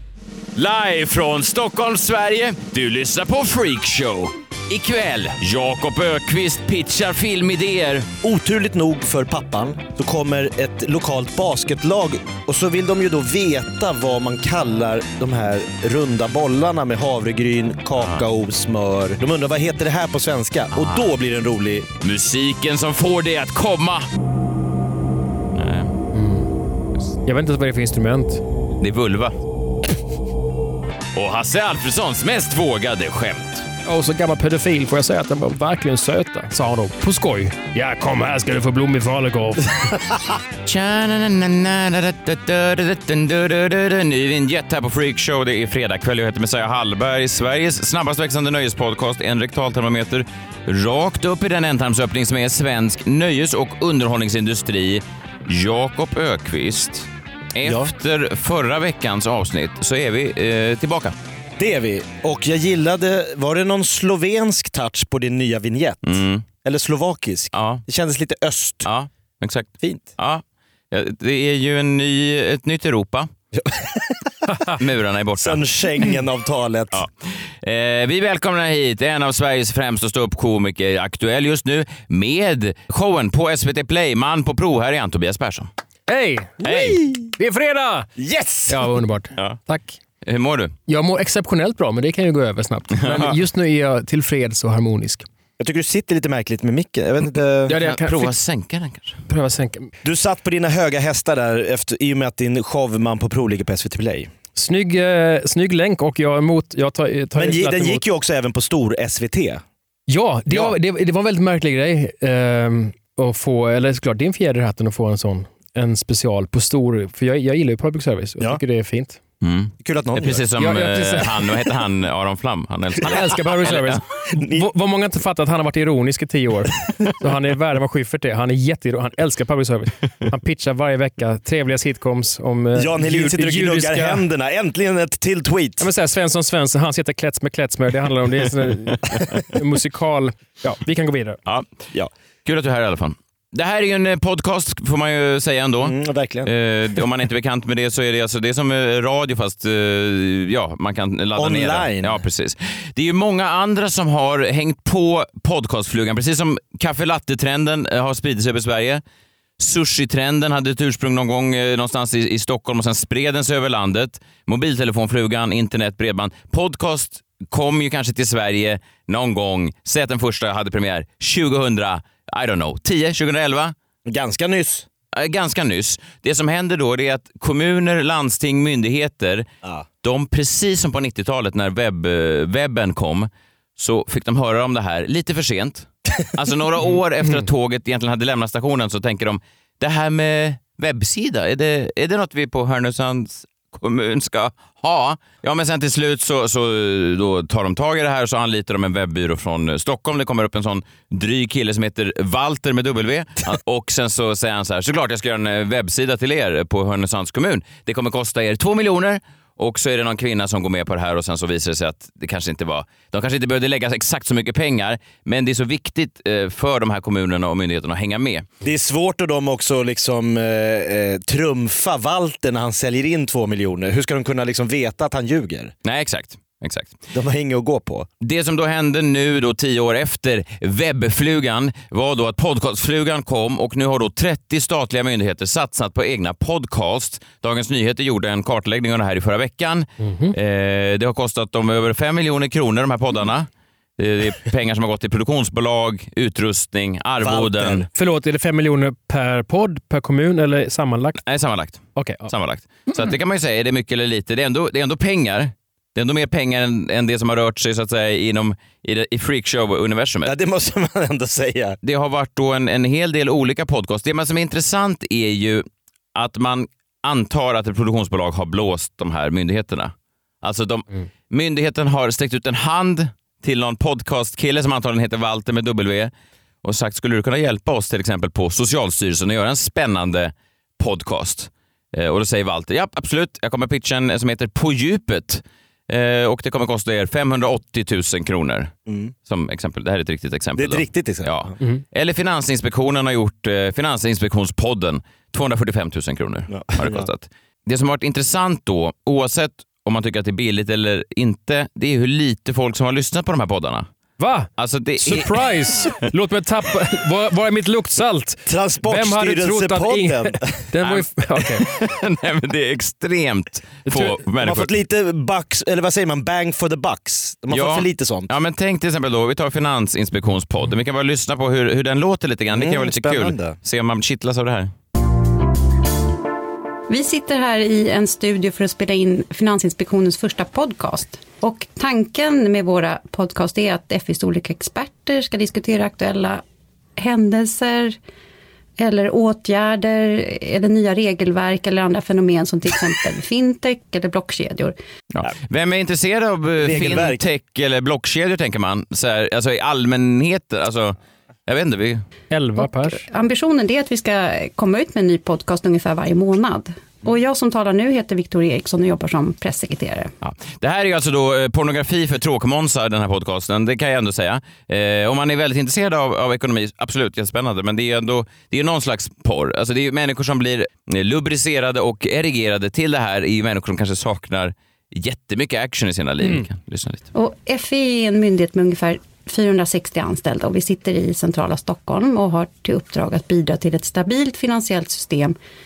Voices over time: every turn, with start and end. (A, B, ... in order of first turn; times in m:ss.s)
0:00.6-0:08.1 A
0:08.2-0:21.9 B
0:18.0-0:18.2 A
0:20.7-0:21.1 A
0:22.0-0:24.0 A
0:25.5-0:25.9 A
0:26.1-0:26.5 C
0:27.2-0:28.4 C
0:28.8-0:29.3 A
0:31.1-0:33.7 A
0:33.8-0:40.0 C
0:40.6-1:01.1 A
0:57.6-0:57.9 B
1:01.6-1:08.9 B
1:06.0-1:06.4 A
1:07.5-1:07.8 A
1:08.8-1:13.3 A
1:09.8-1:10.1 B
1:13.5-1:14.2 B
1:14.8-1:15.6 A
1:15.4-1:17.0 B
1:16.9-1:25.7 A
1:26.1-1:26.7 C
1:26.6-1:27.2 B
1:26.6-1:27.1 A
1:27.4-1:28.1 C
1:28.2-1:28.8 B
1:28.7-1:30.0 C
1:30.2-1:30.7 A
1:30.9-1:35.2 C
1:33.0-1:33.3 A
1:35.6-1:37.8 B
1:37.7-1:38.3 C
1:37.7-1:39.2 A
1:39.3-1:39.9 C
1:40.0-1:44.3 B
1:44.6-1:48.0 C
1:47.4-1:49.6 B
1:50.1-1:59.2 C
1:59.4-2:04.0 A
1:59.8-2:00.4 B
2:00.6-2:01.5 C
2:03.0-2:14.2 C
2:04.3-2:04.7 B
2:12.7-2:15.9 B
2:15.8-2:21.4 C
2:21.5-2:21.9 A
2:22.4-2:39.0 A
2:25.8-2:26.5 B
2:31.4-2:32.2 B
2:39.6-2:53.7 A
2:54.0-2:54.9 B
2:55.1-2:59.5 A
3:00.0-3:38.5 A
3:38.6-3:45.7 B
3:45.8-3:47.0 A
3:47.1-3:48.1 B
3:48.2-4:07.8 A
4:00.0-4:00.3 C
4:07.2-4:07.9 B
4:07.9-4:11.2 C
4:11.2-4:20.3 A
4:12.0-4:12.3 C
4:20.2-4:21.8 B
4:21.8-4:36.1 A
4:36.6-4:48.7 A
4:48.8-4:49.1 B
4:49.3-5:03.8 A
4:50.6-4:51.5 B
4:56.5-4:57.1 B
5:04.2-5:04.5 C
5:04.6-5:05.3 A
5:05.0-5:11.6 C
5:08.4-5:10.6 B
5:10.8-5:14.7 A
5:13.8-5:14.1 C
5:14.4-5:18.3 B
5:17.5-5:24.7 A
5:22.5-5:23.6 B
5:26.9-5:36.4 D
5:37.0-5:38.0 D
5:38.8-5:44.7 D
5:45.1-5:51.0 A
5:46.6-5:47.2 B
5:51.5-5:52.0 A
5:52.3-5:53.0 C
5:52.6-6:00.1 D
6:00.2-6:17.0 A
6:17.1-6:25.4 D